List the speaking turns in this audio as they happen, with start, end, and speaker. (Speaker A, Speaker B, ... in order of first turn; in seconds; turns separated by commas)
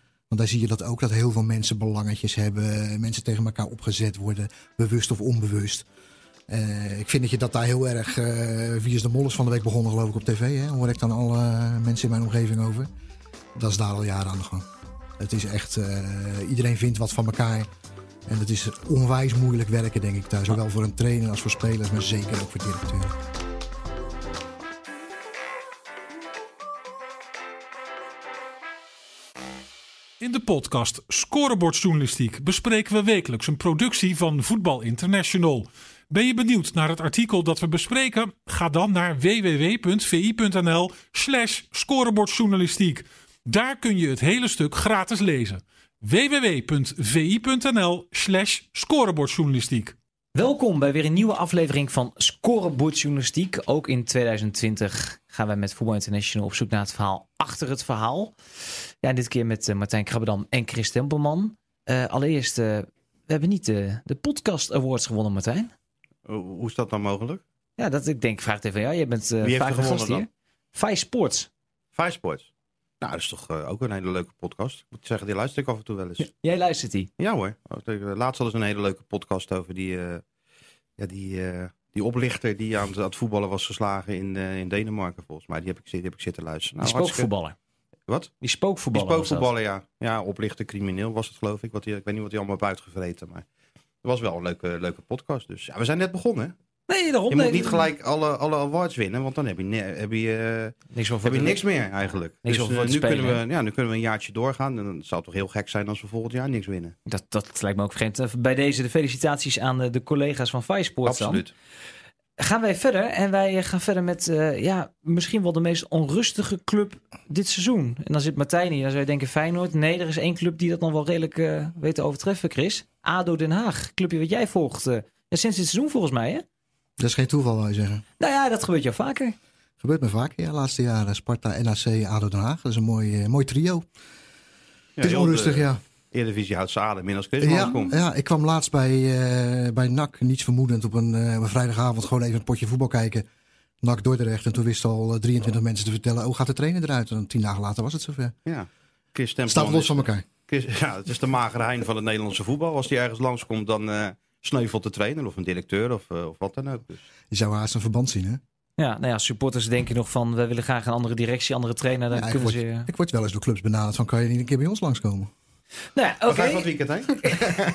Speaker A: 0.3-5.8, Speaker A: 6.5-12.9, Speaker A: 13.5-14.7, Speaker A: 15.2-17.7, Speaker A: 18.3-23.1, Speaker B: 30.2-49.9, Speaker C: 50.3-58.4, Speaker C: 59.0-65.7, Speaker D: 66.2-67.4, Speaker C: 67.8-71.5, Speaker D: 69.4-70.2, Speaker D: 71.9-72.5, Speaker D: 73.0-76.3, Speaker C: 76.2-77.1, Speaker D: 77.2-80.2, Speaker D: 81.0-87.3, Speaker C: 86.8-87.5, Speaker C: 88.4-89.5, Speaker D: 88.9-93.5, Speaker D: 94.0-96.5, Speaker C: 96.9-97.8, Speaker D: 97.3-106.9, Speaker C: 100.9-101.6, Speaker C: 102.4-103.4, Speaker C: 107.1-111.4, Speaker D: 111.0-111.5, Speaker C: 112.4-126.4, Speaker A: 127.0-128.0, Speaker C: 128.2-129.3, Speaker A: 129.8-133.8, Speaker D: 135.0-137.9, Speaker A: 135.0-135.8, Speaker A: 137.4-143.2, Speaker A: 143.8-148.3, Speaker D: 148.4-157.0, Speaker A: 149.5-150.2, Speaker A: 157.3-158.4, Speaker C: 158.8-162.9, Speaker A: 162.1-165.3, Speaker C: 165.9-166.7, Speaker D: 166.3-167.6